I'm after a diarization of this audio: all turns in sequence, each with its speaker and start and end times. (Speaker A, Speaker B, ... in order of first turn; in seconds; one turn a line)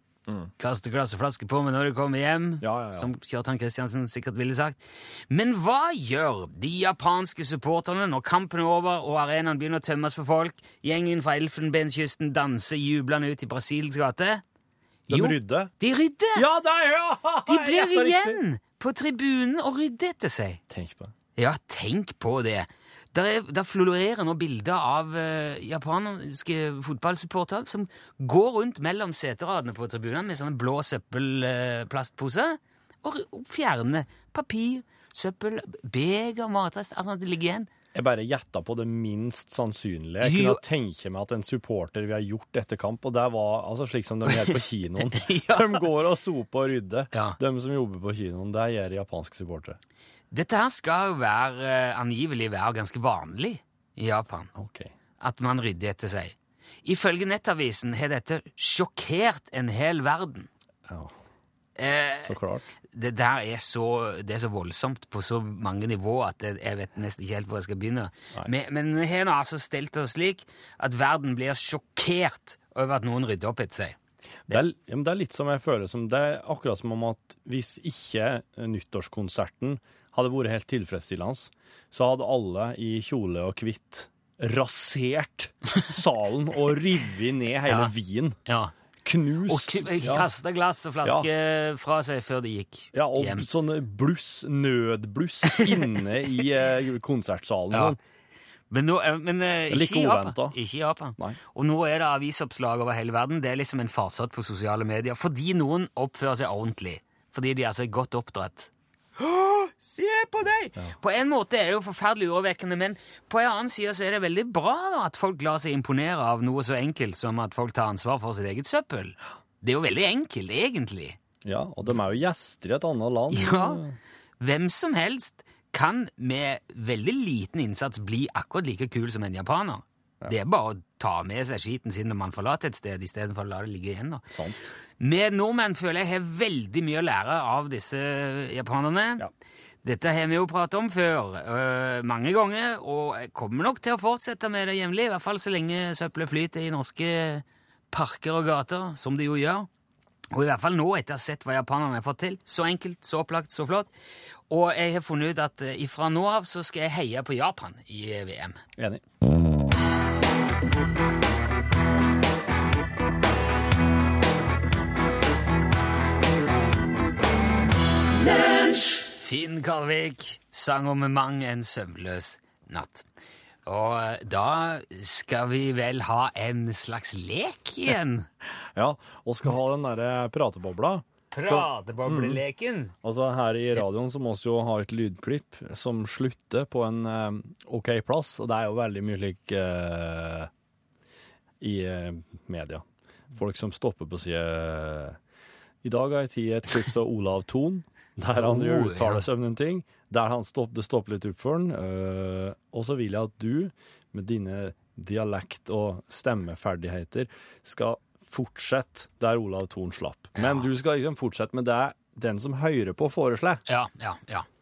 Speaker A: 0.6-14.4
Speaker B: 2.6-3.1
Speaker B: 15.1-15.7
Speaker A: 15.1-16.4
Speaker B: 16.3-18.4
Speaker A: 17.4-20.6
Speaker B: 20.7-21.1
Speaker A: 21.4-37.7
Speaker B: 37.9-49.8
Speaker A: 40.2-40.6
Speaker A: 44.3-44.6
Speaker A: 45.1-45.8
Speaker A: 47.1-47.4
Speaker A: 50.3-54.5
Speaker B: 54.5-54.9
Speaker A: 55.2-60.5
Speaker B: 60.9-61.1
Speaker A: 61.8-62.4
Speaker B: 62.2-62.7
Speaker A: 62.9-74.0
Speaker B: 74.5-88.4
Speaker A: 87.7-87.9
Speaker A: 88.5-88.7
Speaker B: 89.0-90.2
Speaker A: 89.5-93.5
Speaker B: 92.9-98.0
Speaker A: 95.5-95.8
Speaker A: 98.7-121.2
Speaker B: 99.7-100.6
Speaker B: 121.4-124.0
Speaker A: 123.3-123.8
Speaker A: 124.4-134.2
Speaker B: 134.3-134.7
Speaker A: 135.0-139.2
Speaker A: 139.8-149.7
Speaker A: 150.3-153.9
Speaker A: 154.5-158.6
Speaker B: 158.8-159.0
Speaker A: 169.2-173.0
Speaker A: 173.7-178.3
Speaker B: 178.7-182.4
Speaker A: 181.3-182.9
Speaker B: 183.0-190.5
Speaker B: 191.6-195.2
Speaker B: 195.8-213.6
Speaker A: 198.3-199.2
Speaker A: 210.3-210.7
Speaker A: 213.7-214.4